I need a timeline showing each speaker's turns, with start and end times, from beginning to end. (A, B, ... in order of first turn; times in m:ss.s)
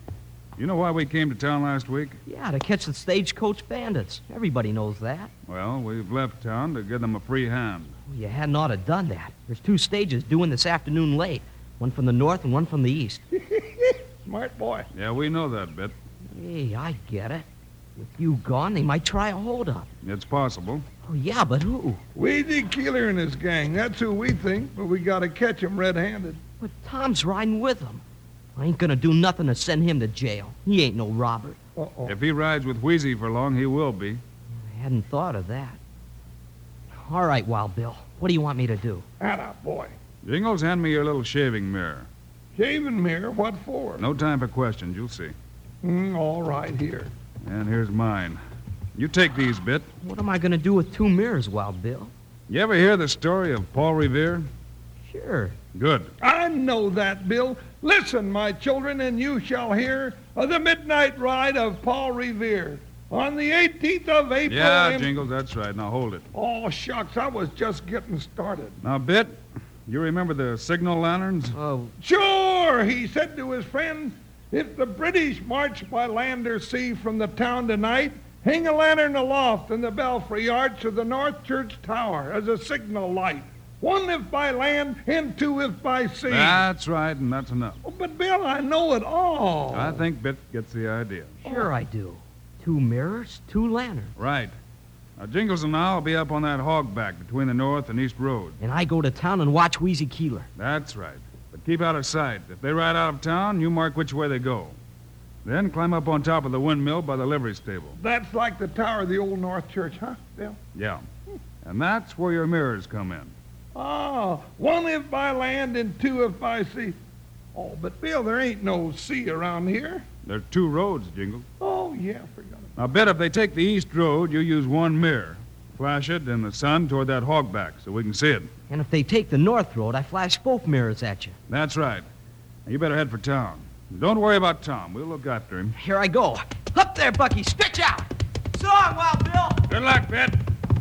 0:00.6-0:02.2 A
0:02.2-0:05.3 B
0:05.5-0:07.9 A
0:08.1-0:13.2 B
0:13.3-0:14.9 C
0:14.9-0:15.9 A
0:16.3-0:19.9 B
0:20.0-0:20.8 A
0:21.0-0:22.0 B
0:22.2-0:26.4 C
0:26.6-0:28.0 B
0:28.6-0:31.6 B
0:31.8-0:32.2 C
0:32.0-0:34.2 A
0:34.6-0:35.8 B
0:36.9-0:39.0 B
0:39.2-0:39.9 C
0:40.2-0:42.1 A
0:42.6-0:44.0 C
0:44.0-0:45.3 A
0:45.8-0:47.1 C
0:47.4-0:48.4 A
0:48.9-0:49.9 A
0:50.0-0:52.1 B
0:52.5-0:54.5 A
0:55.0-0:55.6 B
0:55.7-0:56.1 A
0:56.2-1:05.2 C
1:04.4-1:06.3 A
1:06.3-1:08.8 C
1:08.8-1:11.6 A
1:11.5-1:11.9 B
1:12.0-1:26.6 C
1:26.3-1:27.8 A
1:27.8-1:30.0 C
1:29.7-1:31.6 A
1:31.4-1:34.2 B
1:34.2-1:34.5 A
1:35.2-1:38.6 A
1:38.6-1:40.5 B
1:40.6-1:44.7 A
1:45.4-1:48.0 A
1:48.0-1:50.6 C
1:50.7-1:51.0 A
1:51.6-1:53.3 A
1:53.7-1:57.0 C
1:57.5-2:00.0 C
2:00.2-2:01.5 A
2:01.6-2:02.7 C
2:02.8-2:08.5 A
2:08.7-2:11.4 B
2:11.5-2:12.0 A
2:12.6-2:15.7 A
2:15.7-2:19.7 B
2:19.7-2:20.4 A